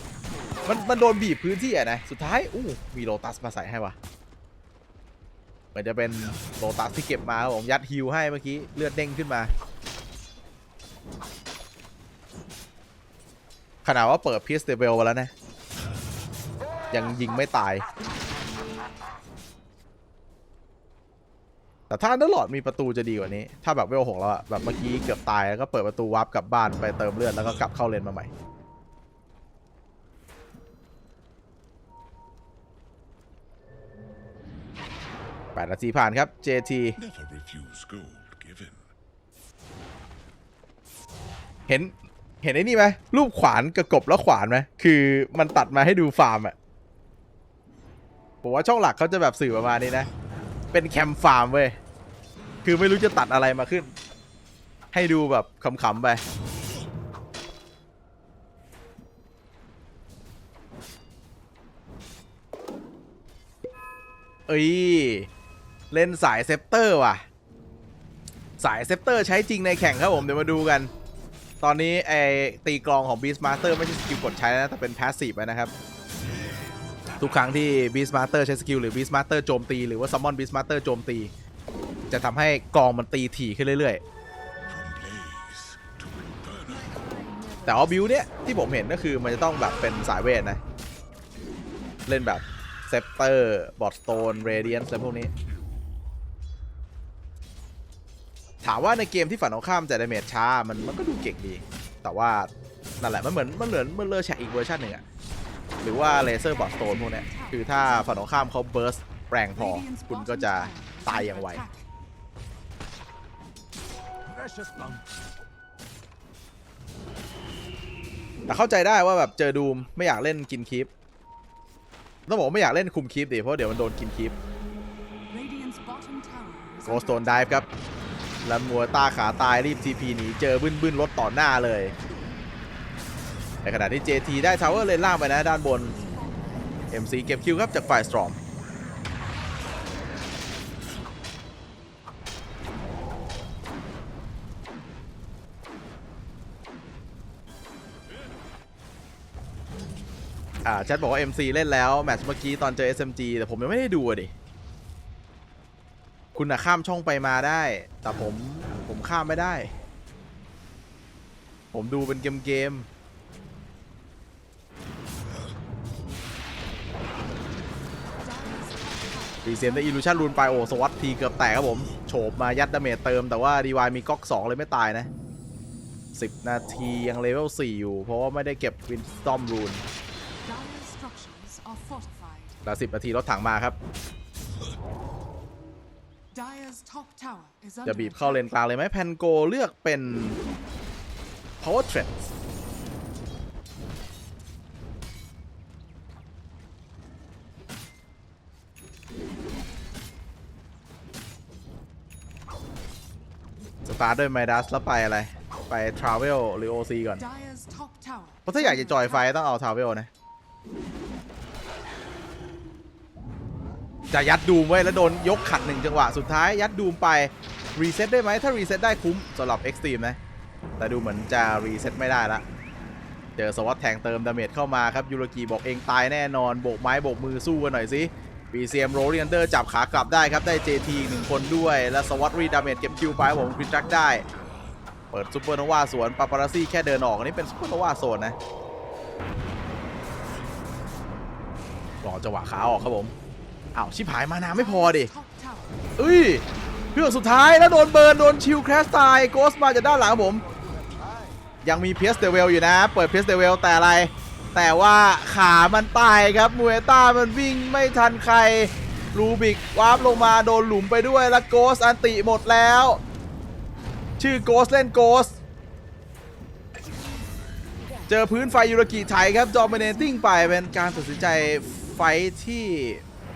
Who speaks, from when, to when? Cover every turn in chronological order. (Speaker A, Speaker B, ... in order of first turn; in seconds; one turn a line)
Speaker A: 0.6-4.0
Speaker A: 5.7-9.5
Speaker A: 13.8-15.3
Speaker A: 16.9-17.8
Speaker A: 21.9-28.3
Speaker A: 35.5-37.0
Speaker B: 37.0-38.9
Speaker A: 41.7-46.5
Speaker A: 48.4-50.1
Speaker A: 50.7-51.8
Speaker A: 52.6-53.9
Speaker A: 54.9-56.2
Speaker A: 64.5-65.3
Speaker A: 65.9-67.2
Speaker A: 68.6-70.9
Speaker A: 71.6-75.7
Speaker A: 77.2-81.3
Speaker A: 82.1-84.0
Speaker B: 84.7-87.3
Speaker A: 87.6-90.6
Speaker A: 92.1-95.3
Speaker B: 95.4-96.0
Speaker A: 98.6-102.5
Speaker A: 103.0-105.0
Speaker A: 105.8-111.6
Speaker C: 106.1-108.5
Speaker C: 109.5-111.7
Speaker A: 118.5-120.9
Speaker A: 122.3-124.3
Speaker C: 125.3-127.5
Speaker A: 126.8-127.7
Speaker A: 128.4-131.9
Speaker A: 133.6-135.9
Speaker C: 135.5-136.6
Speaker A: 136.9-138.4
Speaker A: 150.6-154.3
Speaker A: 156.3-159.7
Speaker A: 161.7-162.9
Speaker C: 168.2-170.9
Speaker A: 169.4-175.1
Speaker A: 176.1-179.8
Speaker C: 180.4-182.6
Speaker A: 182.6-183.8
Speaker C: 186.3-188.4
Speaker A: 187.8-190.4
Speaker A: 191.6-192.3
Speaker A: 203.8-207.2
Speaker C: 207.2-209.3
Speaker A: 208.4-210.1
Speaker A: 214.1-220.2
Speaker A: 220.8-222.4
Speaker A: 223.4-234.2
Speaker B: 234.3-234.8
Speaker A: 235.1-238.3
Speaker A: 242.0-243.1
Speaker A: 243.7-245.1
Speaker C: 244.5-245.9
Speaker A: 246.0-246.4
Speaker A: 246.9-250.4
Speaker A: 251.6-263.0
Speaker A: 264.2-265.4
Speaker A: 268.1-273.0
Speaker C: 269.7-271.6